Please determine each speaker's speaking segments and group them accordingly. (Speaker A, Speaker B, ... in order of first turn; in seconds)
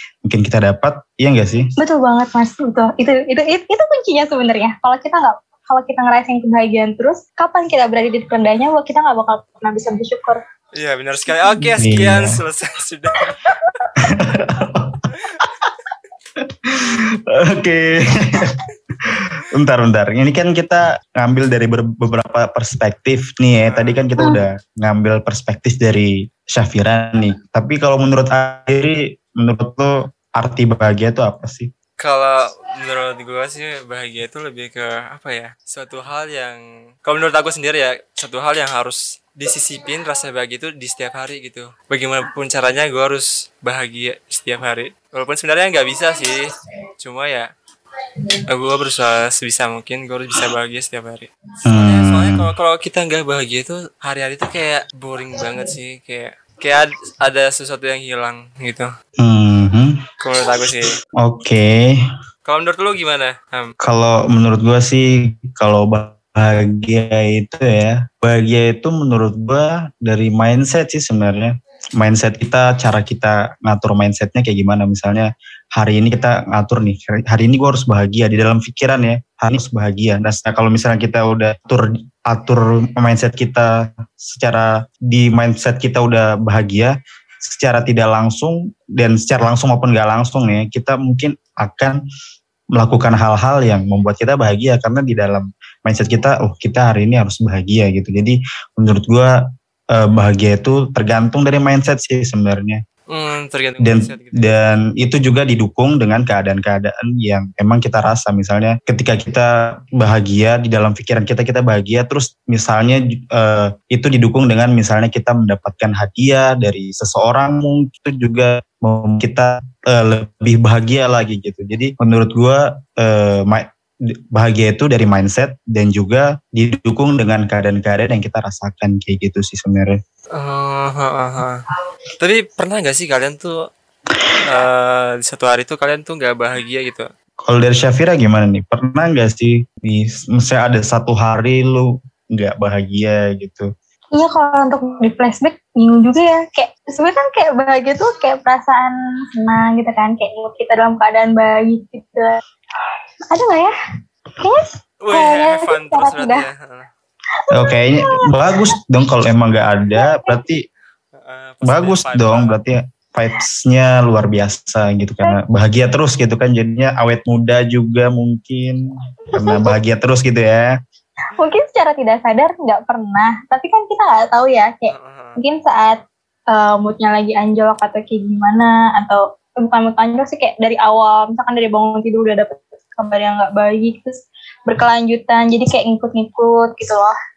Speaker A: 0.2-1.7, 11.4-12.3, 14.0-15.7, 16.4-31.7, 51.7-52.5, 59.2-60.0, 61.2-62.0, 63.8-92.0, 92.8-99.4, 99.9-102.8, 103.8-123.7, 124.3-130.0, 137.5-143.7, 157.5-160.6, 161.7-168.8, 169.3-170.8
Speaker B: 1.8-10.4, 13.2-14.1, 144.2-152.3, 153.3-153.7, 154.4-156.5, 157.5-158.6, 159.9-160.4, 169.3-169.8, 171.3-187.1
Speaker C: 10.8-13.7, 15.1-15.4, 23.6-24.1, 32.0-47.5, 48.5-58.9, 60.2-60.9, 62.5-63.7, 103.1-104.7, 130.3-131.6, 132.2-133.6, 134.4-137.1, 155.0-156.9, 161.1-162.6, 174.9-175.4